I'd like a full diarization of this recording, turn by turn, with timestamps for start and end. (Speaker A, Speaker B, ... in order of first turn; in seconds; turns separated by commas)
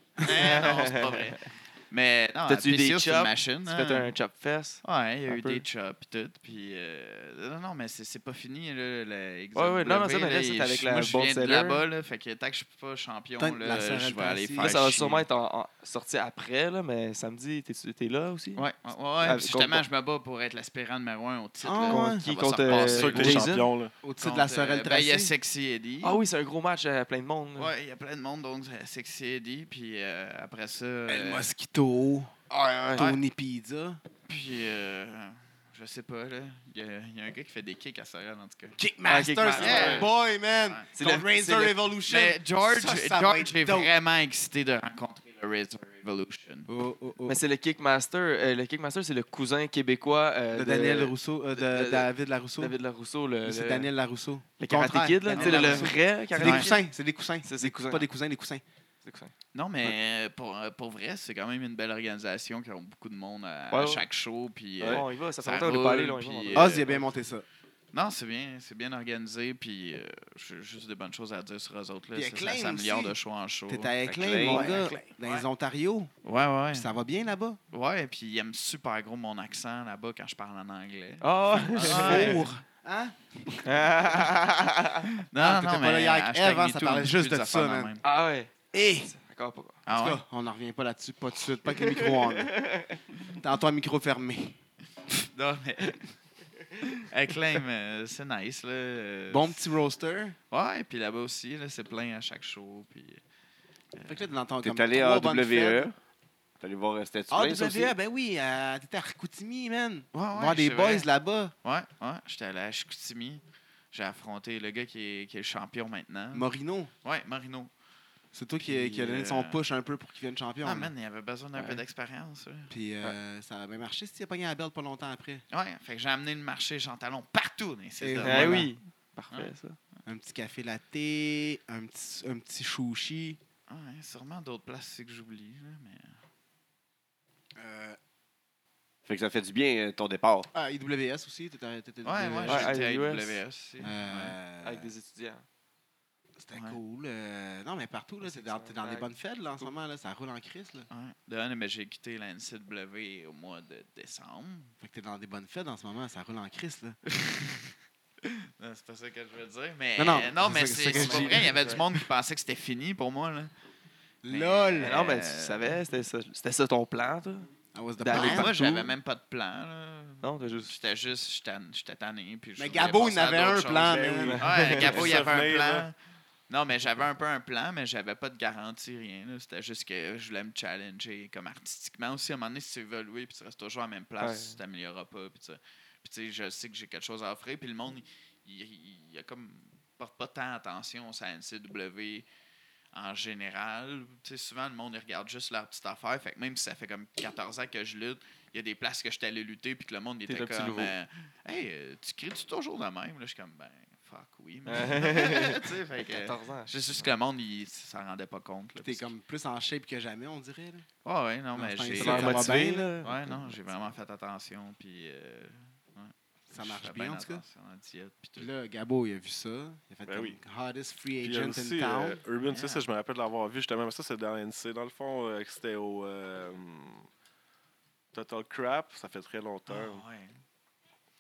Speaker A: 0.2-4.1, Speaker B: 0.3-1.3, Speaker B: 2.5-5.6, Speaker A: 4.8-15.3, Speaker B: 9.6-11.8, Speaker C: 13.4-14.7, Speaker B: 14.6-18.7, Speaker A: 18.6-23.6, Speaker B: 19.2-19.9, Speaker C: 21.6-22.2, Speaker B: 21.8-23.7, Speaker D: 22.7-23.9, Speaker C: 24.0-25.3, Speaker A: 24.2-26.2, Speaker B: 26.0-27.7, Speaker A: 27.6-31.5, Speaker C: 31.1-32.3, Speaker B: 32.5-33.1, Speaker C: 33.0-34.0, Speaker A: 34.3-38.8, Speaker C: 38.8-43.9, Speaker B: 39.0-40.1, Speaker A: 39.5-40.1, Speaker B: 41.0-41.8, Speaker A: 42.0-46.7, Speaker C: 46.7-47.4, Speaker B: 47.3-53.9, Speaker C: 50.5-52.8, Speaker C: 53.4-58.6, Speaker B: 54.6-56.9, Speaker A: 55.3-56.7, Speaker B: 57.4-58.1, Speaker B: 59.0-59.3, Speaker A: 59.5-67.0, Speaker B: 63.7-64.0, Speaker E: 64.8-65.0, Speaker B: 64.8-67.0, Speaker C: 66.5-67.5, Speaker A: 67.9-74.0, Speaker C: 72.1-73.2, Speaker C: 73.7-76.1, Speaker E: 74.0-75.0, Speaker B: 74.5-75.0, Speaker A: 74.5-75.5, Speaker A: 76.2-76.9, Speaker C: 76.7-77.6, Speaker A: 77.7-82.6, Speaker B: 81.2-82.5, Speaker C: 81.8-83.9, Speaker B: 83.7-85.1, Speaker A: 85.2-88.0, Speaker C: 85.4-87.9, Speaker B: 88.0-89.8, Speaker C: 88.7-89.1, Speaker A: 89.8-90.2, Speaker C: 89.9-92.7, Speaker B: 91.8-93.0, Speaker C: 93.3-94.6, Speaker A: 95.3-96.1, Speaker A: 96.8-99.6, Speaker C: 99.3-100.4, Speaker A: 100.5-103.2, Speaker A: 104.0-104.3, Speaker C: 104.1-105.9, Speaker E: 104.6-106.0, Speaker E: 106.6-108.0, Speaker C: 107.3-111.5, Speaker A: 110.1-111.1, Speaker A: 111.6-116.5, Speaker C: 116.3-116.9, Speaker A: 117.0-117.7, Speaker C: 118.3-120.9, Speaker A: 118.6-119.6, Speaker A: 120.6-122.7, Speaker B: 121.5-121.8, Speaker C: 122.7-125.5, Speaker A: 125.5-128.7, Speaker C: 128.0-128.7, Speaker B: 128.2-129.8, Speaker A: 129.3-130.0, Speaker C: 130.1-133.4, Speaker A: 133.7-136.2, Speaker C: 137.6-138.0, Speaker E: 139.1-140.5, Speaker C: 140.5-142.8, Speaker A: 142.0-144.4, Speaker B: 142.4-143.4, Speaker C: 143.8-144.9, Speaker B: 144.6-145.4, Speaker C: 146.4-150.9, Speaker A: 146.5-146.8, Speaker B: 148.2-149.7, Speaker A: 150.9-154.8, Speaker C: 154.8-157.0, Speaker A: 157.2-157.5, Speaker A: 158.2-163.5, Speaker C: 160.0-161.8, Speaker B: 160.9-161.8, Speaker C: 164.2-165.0, Speaker A: 164.3-165.8, Speaker B: 164.8-169.0, Speaker C: 167.7-168.5, Speaker A: 168.1-176.0, Speaker B: 170.2-170.8, Speaker C: 172.6-175.2, Speaker D: 173.8-175.9, Speaker B: 174.2-175.0, Speaker A: 176.5-192.3, Speaker B: 184.2-184.6, Speaker A: 192.9-209.1, Speaker B: 200.3-200.9, Speaker B: 204.7-206.8, Speaker C: 208.8-210.9, Speaker A: 211.0-218.5, Speaker C: 211.6-213.0, Speaker B: 211.9-213.5, Speaker C: 216.5-217.4, Speaker C: 218.4-222.2, Speaker D: 220.1-220.4, Speaker D: 221.2-227.1, Speaker A: 222.4-222.9, Speaker D: 228.1-230.0, Speaker A: 229.7-230.4